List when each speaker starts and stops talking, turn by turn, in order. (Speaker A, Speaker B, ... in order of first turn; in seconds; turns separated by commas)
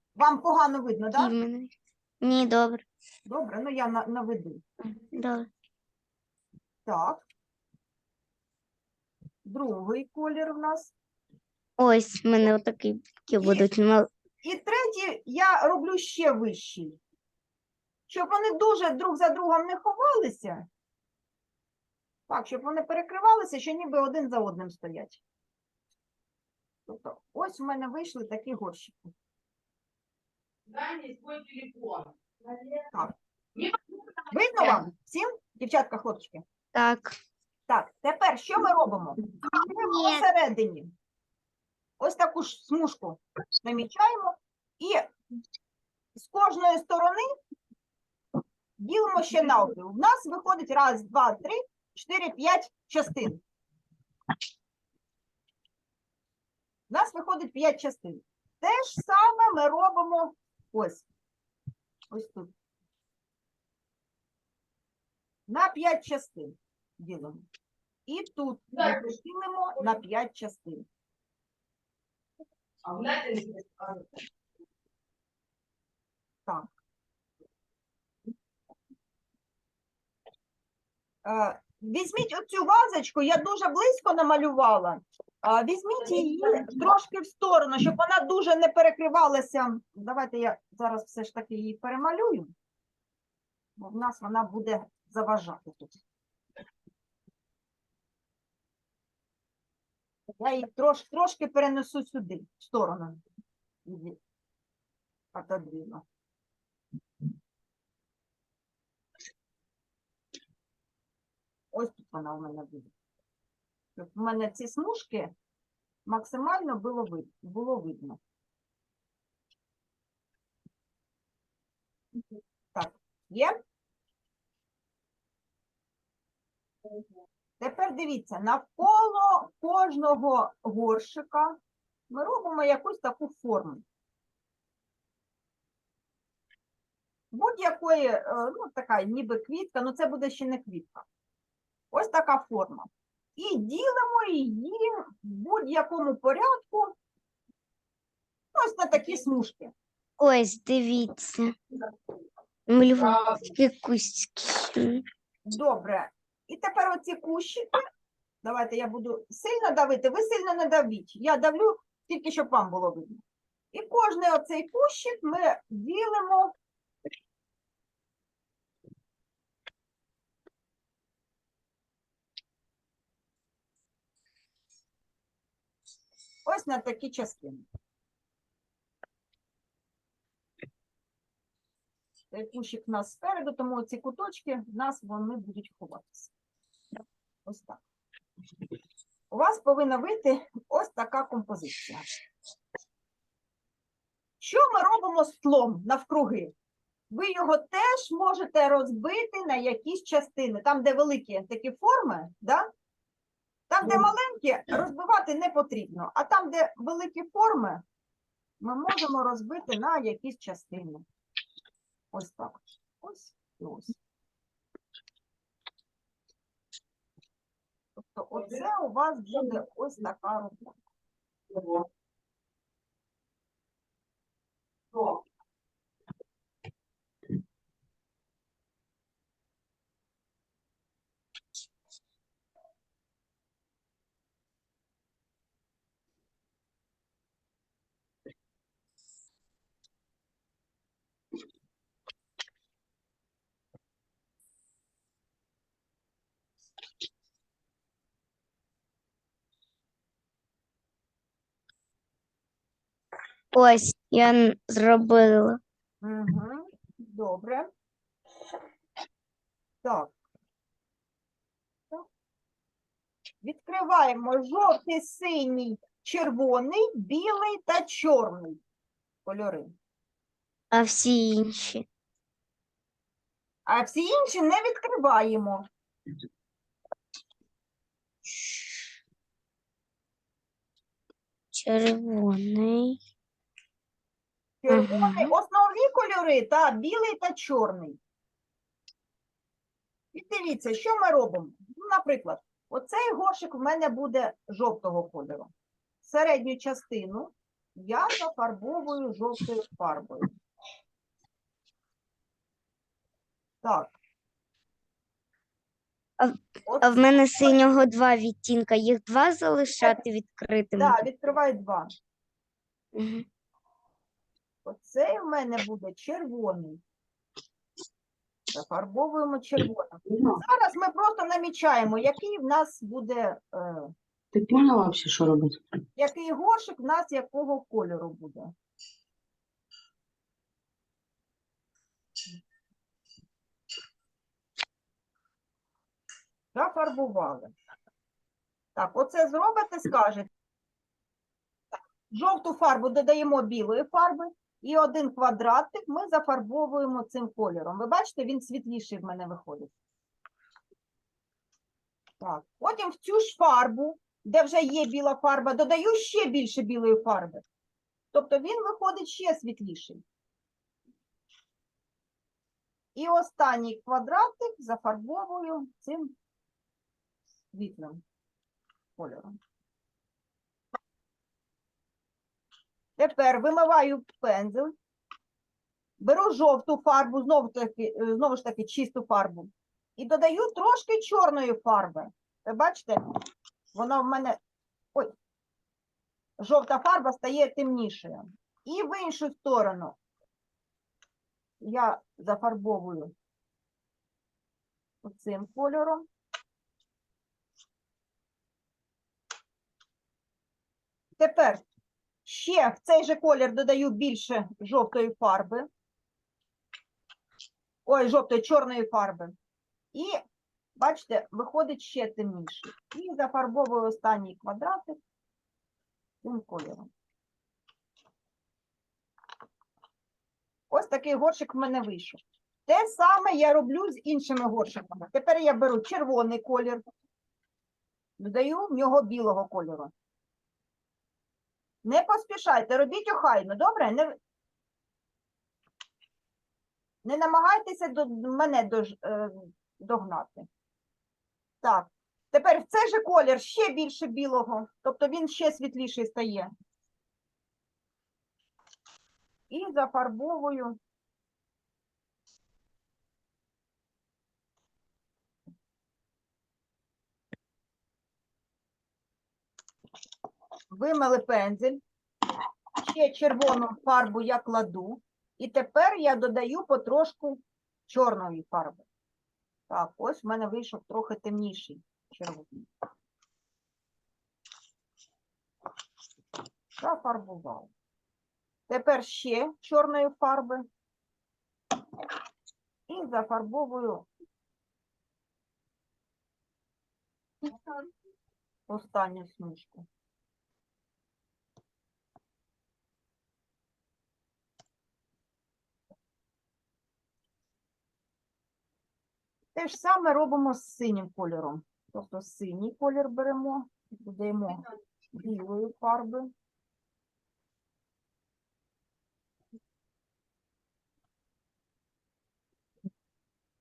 Speaker A: 0.2-1.3, Speaker B: 1.2-2.9, Speaker A: 3.3-4.6, Speaker B: 5.0-5.5, Speaker A: 6.9-7.2, Speaker A: 9.4-10.9, Speaker B: 11.8-14.1, Speaker A: 13.4-13.7, Speaker A: 14.4-17.0, Speaker A: 18.1-20.7, Speaker A: 22.3-25.2, Speaker A: 26.9-29.1, Speaker C: 30.7-32.8, Speaker A: 34.3-36.4, Speaker B: 36.7-37.2, Speaker A: 37.7-40.9, Speaker B: 39.7-40.2, Speaker A: 42.0-45.1, Speaker A: 46.2-47.2, Speaker A: 48.8-53.4, Speaker A: 56.9-61.1, Speaker A: 62.1-62.5, Speaker A: 65.5-67.5, Speaker A: 68.1-70.9, Speaker C: 72.8-74.0, Speaker A: 81.2-92.5, Speaker A: 93.8-96.0, Speaker A: 100.4-103.2, Speaker A: 103.9-104.2, Speaker A: 105.3-106.0, Speaker A: 111.7-112.9, Speaker A: 114.0-115.3, Speaker A: 116.1-118.2, Speaker A: 122.8-123.6, Speaker A: 127.6-131.6, Speaker A: 132.1-133.8, Speaker A: 137.3-141.1, Speaker A: 141.9-147.0, Speaker A: 148.5-149.7, Speaker B: 150.2-151.6, Speaker B: 152.7-155.1, Speaker A: 155.5-157.7, Speaker A: 158.4-166.5, Speaker A: 176.5-177.7, Speaker A: 182.3-186.3, Speaker A: 187.5-187.8, Speaker A: 189.3-192.1, Speaker A: 194.4-196.5, Speaker A: 197.1-202.7, Speaker A: 203.7-207.8, Speaker A: 208.6-211.1, Speaker A: 212.1-214.0, Speaker A: 218.0-220.8, Speaker B: 253.5-255.6, Speaker A: 256.0-257.7, Speaker A: 259.8-260.1, Speaker A: 263.4-268.6, Speaker A: 269.2-269.8, Speaker B: 270.7-271.9, Speaker A: 273.7-275.7, Speaker B: 278.2-278.9, Speaker B: 281.5-283.0, Speaker A: 284.6-288.0, Speaker B: 284.7-285.3, Speaker A: 290.1-295.5, Speaker A: 296.0-300.3, Speaker A: 303.6-303.9, Speaker B: 306.2-311.0, Speaker A: 306.7-307.6, Speaker A: 310.8-311.9, Speaker B: 312.9-313.3, Speaker A: 314.6-316.8, Speaker A: 318.5-323.9, Speaker C: 320.1-320.4, Speaker C: 324.3-325.6, Speaker A: 326.0-328.5, Speaker A: 336.5-337.5, Speaker A: 338.8-340.3, Speaker A: 342.1-349.7, Speaker A: 352.2-357.4, Speaker A: 358.1-360.0, Speaker A: 362.9-366.1, Speaker A: 367.5-368.0, Speaker A: 369.0-369.4, Speaker A: 373.0-374.8, Speaker A: 376.0-383.0, Speaker A: 383.7-384.4, Speaker A: 386.4-390.0, Speaker A: 391.6-393.1, Speaker A: 395.0-396.1, Speaker A: 401.2-401.6, Speaker A: 402.2-405.7, Speaker A: 407.9-409.3, Speaker A: 409.9-410.2, Speaker A: 410.8-415.0, Speaker A: 416.2-416.9, Speaker A: 420.7-426.8, Speaker A: 428.2-429.9, Speaker A: 431.8-434.2, Speaker A: 437.0-440.5, Speaker A: 441.6-446.5, Speaker A: 449.5-450.8, Speaker A: 460.7-461.8, Speaker A: 462.8-468.9, Speaker A: 469.7-472.7, Speaker A: 476.8-477.7, Speaker A: 478.7-480.7, Speaker A: 482.9-484.1, Speaker A: 488.7-489.9, Speaker A: 499.6-506.3